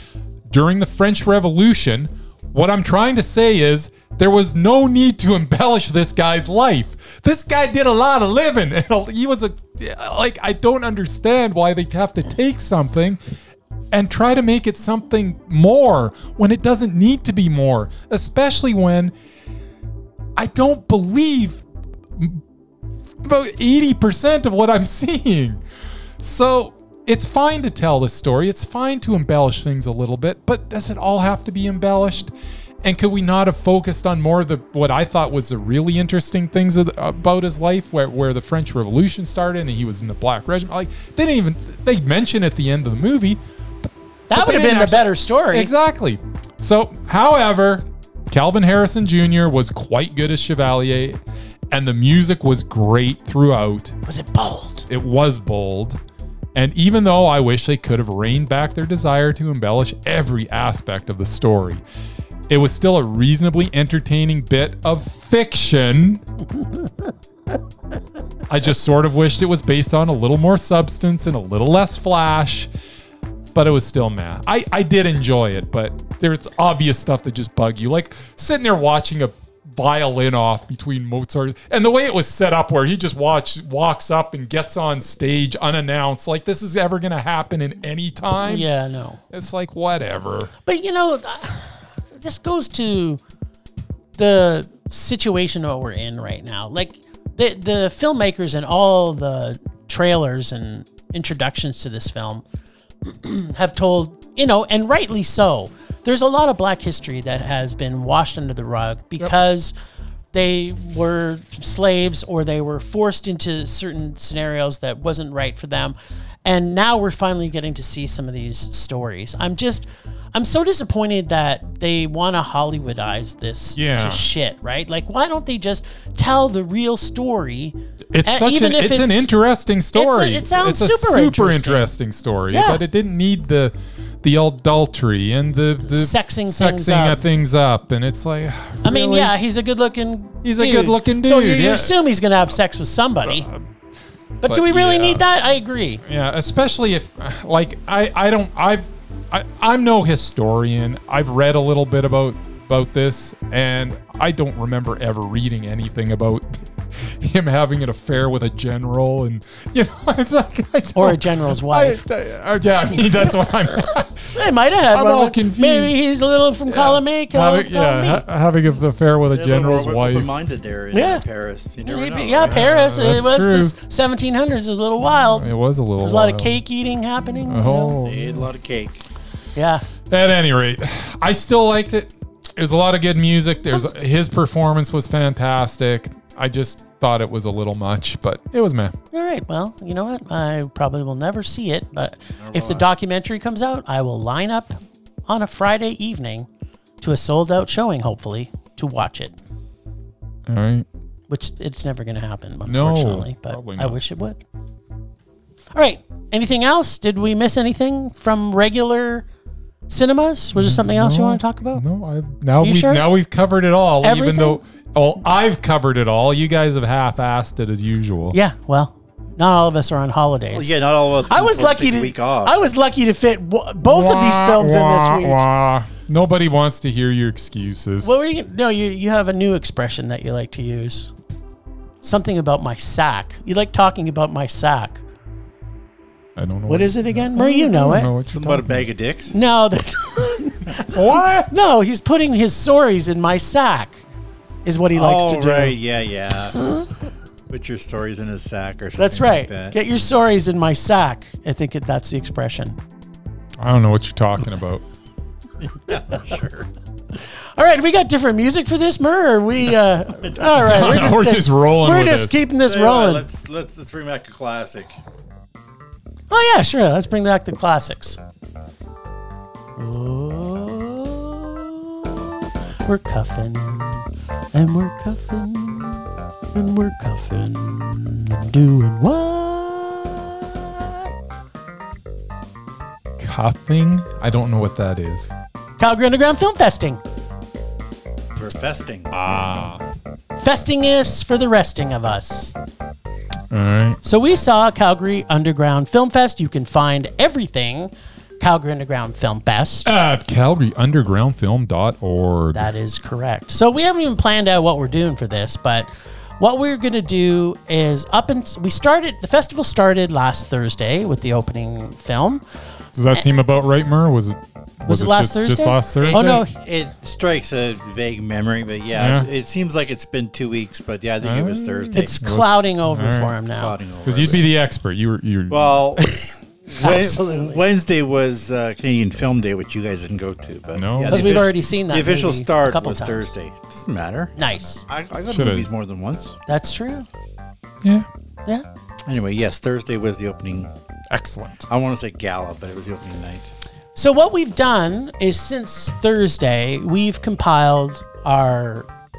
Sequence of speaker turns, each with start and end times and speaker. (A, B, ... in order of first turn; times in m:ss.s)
0:00.5-0:13.2 A
0:13.9-0:19.1 A
0:20.4-0:21.6 A
0:22.2-0:22.4 A
0:23.2-0:25.6 A
0:26.2-0:32.3 A
0:32.8-0:54.0 A
0:44.3-0:45.7 B
0:54.1-0:54.9 B
0:54.9-0:56.0 A
0:56.6-1:01.8 A
1:02.5-1:06.2 A
1:08.5-1:12.7 A
1:13.5-1:28.7 A
1:28.4-1:29.2 B
1:29.3-1:30.5 A
1:30.7-1:33.2 B
1:34.2-1:42.4 B
1:43.0-1:49.7 B
1:50.3-2:09.3 B
2:03.8-2:04.2 A
2:08.1-2:19.3 A
2:10.0-2:11.9 B
2:12.5-2:12.8 B
2:15.8-2:17.2 B
2:18.8-2:23.5 B
2:20.4-2:22.0 A
2:23.3-2:23.6 A
2:24.4-2:26.0 B
2:24.4-2:25.2 A
2:26.0-2:44.4 A
2:41.0-2:42.0 B
2:44.3-2:48.2 B
2:44.9-2:46.0 A
2:46.7-2:50.3 A
2:49.3-2:52.7 C
2:50.9-2:51.2 B
2:51.8-2:55.5 B
2:52.4-2:53.8 A
2:55.3-2:56.6 A
2:56.0-2:58.0 B
2:57.4-2:58.6 A
2:58.0-2:59.0 C
2:59.6-2:59.9 B
3:00.1-3:09.0 A
3:09.1-3:16.5 B
3:12.4-3:12.9 C
3:17.0-3:19.3 B
3:20.5-3:20.9 A
3:21.3-3:24.4 B
3:22.7-3:24.0 A
3:25.8-3:29.3 B
3:29.9-3:31.8 B
3:30.6-3:38.4 A
3:32.6-3:33.1 B
3:34.0-3:34.6 B
3:38.3-3:45.4 B
3:40.5-3:42.6 C
3:43.8-3:48.1 A
3:48.0-3:51.1 B
3:52.0-3:55.0 B
3:56.4-3:58.9 A
3:56.7-3:58.1 B
3:58.2-3:59.4 C
3:59.3-4:04.0 B
4:00.9-4:01.5 A
4:04.6-4:05.8 B
4:04.9-4:06.7 C
4:07.5-4:09.8 C
4:09.0-4:12.8 B
4:13.6-4:14.8 A
4:15.6-4:16.7 C
4:17.6-4:23.3 B
4:20.6-4:22.4 A
4:22.6-4:25.0 C
4:26.3-4:28.2 B
4:29.8-4:41.1 B
4:43.2-4:45.4 A
4:45.8-4:47.0 B
4:48.4-4:49.1 C
4:49.1-4:49.8 A
4:50.4-4:52.6 B
4:53.5-4:54.0 A
4:54.0-4:59.9 B
4:59.8-5:02.7 A
5:02.5-5:12.4 B
5:13.0-5:16.4 A
5:14.9-5:16.5 B
5:16.0-5:22.1 C
5:19.0-5:19.3 A
5:21.2-5:23.3 A
5:21.9-5:24.4 B
5:23.5-5:24.5 C
5:24.0-5:26.2 A
5:25.5-5:26.2 C
5:26.7-5:34.4 C
5:26.7-5:27.6 B
5:30.7-5:31.4 A
5:31.1-5:33.3 B
5:34.4-5:34.8 B
5:34.9-5:36.4 C
5:35.3-5:35.7 A
5:36.5-5:37.1 B
5:39.1-5:40.7 C
5:41.1-5:41.7 A
5:41.7-5:43.5 C
5:44.0-5:48.9 B